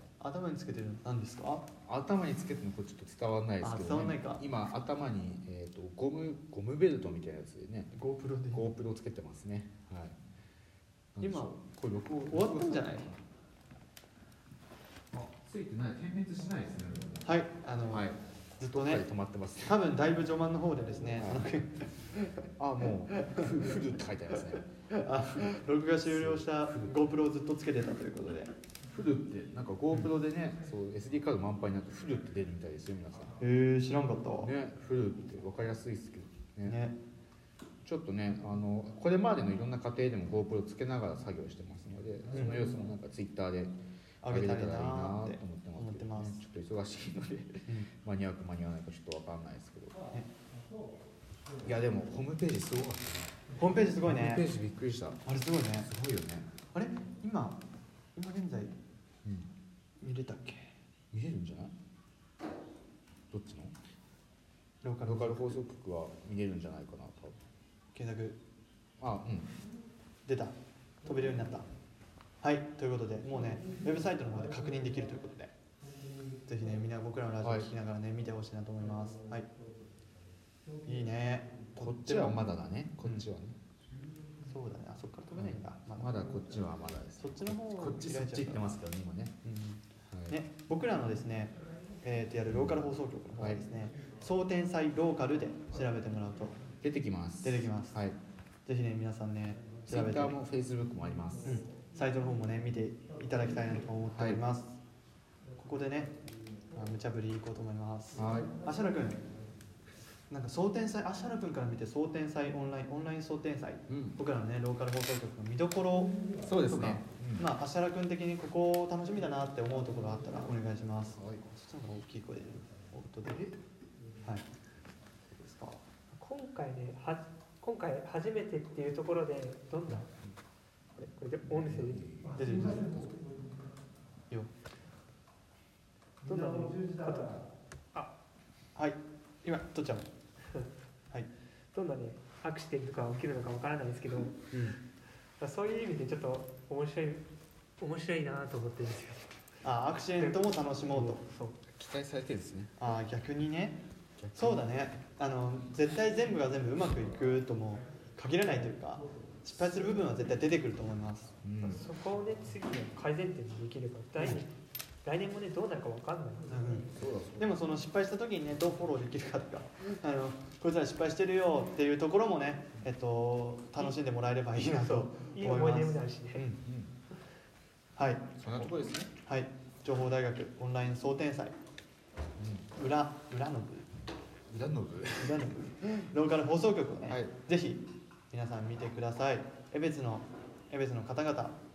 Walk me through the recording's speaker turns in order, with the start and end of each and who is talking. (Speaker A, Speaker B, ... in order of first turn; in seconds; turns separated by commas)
Speaker A: 0.2-1.7, Speaker B: 1.9-7.9, Speaker A: 3.6-4.4, Speaker A: 7.9-8.7, Speaker B: 8.5-10.2, Speaker B: 11.2-13.2, Speaker A: 11.2-11.5, Speaker A: 12.3-13.1, Speaker B: 15.1-17.2, Speaker A: 17.2-18.1, Speaker B: 17.9-19.8, Speaker A: 18.6-19.1, Speaker A: 19.6-22.4, Speaker B: 21.2-21.4, Speaker B: 22.6-27.1, Speaker A: 23.1-23.5, Speaker A: 24.9-28.5, Speaker B: 28.9-33.4, Speaker A: 33.4-34.5, Speaker B: 34.4-36.8, Speaker A: 36.7-37.0, Speaker B: 37.8-50.0, Speaker A: 42.3-42.6, Speaker A: 44.2-46.4, Speaker B: 51.6-53.4, Speaker A: 53.6-54.5, Speaker B: 54.0-55.2, Speaker A: 55.2-55.9, Speaker B: 55.8-56.5, Speaker A: 56.7-57.6, Speaker A: 58.1-58.8, Speaker B: 59.2-59.5, Speaker A: 60.0-60.7, Speaker B: 61.1-61.7, Speaker B: 63.3-63.8, Speaker A: 64.8-65.6, Speaker B: 65.0-67.4, Speaker A: 67.9-68.4, Speaker B: 69.0-69.5, Speaker A: 70.3-71.7, Speaker A: 72.4-75.5, Speaker A: 76.5-79.5, Speaker B: 77.4-77.7, Speaker A: 80.8-82.4, Speaker B: 81.8-83.6, Speaker A: 84.5-86.6, Speaker B: 85.3-89.4, Speaker A: 87.2-88.7, Speaker A: 89.4-96.6, Speaker B: 90.1-90.4, Speaker B: 92.5-92.8, Speaker B: 96.8-98.2, Speaker A: 97.4-98.0, Speaker A: 98.7-100.4, Speaker B: 99.9-101.6, Speaker A: 101.4-104.8, Speaker B: 104.1-104.4, Speaker A: 105.6-106.1, Speaker A: 106.7-109.2, Speaker B: 108.2-108.5, Speaker A: 110.3-123.6, Speaker B: 113.9-114.2, Speaker B: 116.4-117.5, Speaker B: 121.2-121.4, Speaker A: 125.3-125.8, Speaker C: 126.1-130.1, Speaker C: 131.0-132.1, Speaker B: 131.5-133.1, Speaker A: 132.3-133.1, Speaker C: 136.2-137.4, Speaker A: 138.8-140.1, Speaker C: 141.7-144.5, Speaker A: 144.5-144.8, Speaker C: 145.4-147.3, Speaker C: 147.8-149.5, Speaker A: 149.6-151.2, Speaker C: 150.9-151.6, Speaker B: 151.7-152.7, Speaker A: 152.8-153.8, Speaker B: 154.2-154.6, Speaker A: 154.3-161.8, Speaker B: 161.4-161.8, Speaker C: 161.7-164.5, Speaker C: 165.0-166.6, Speaker A: 166.5-176.6, Speaker B: 166.9-167.6, Speaker C: 174.7-176.4, Speaker B: 176.6-176.9, Speaker A: 178.0-181.6, Speaker B: 178.4-179.1, Speaker B: 182.4-182.7, Speaker A: 182.8-183.9, Speaker B: 184.5-185.5, Speaker A: 185.2-191.6, Speaker B: 187.1-187.3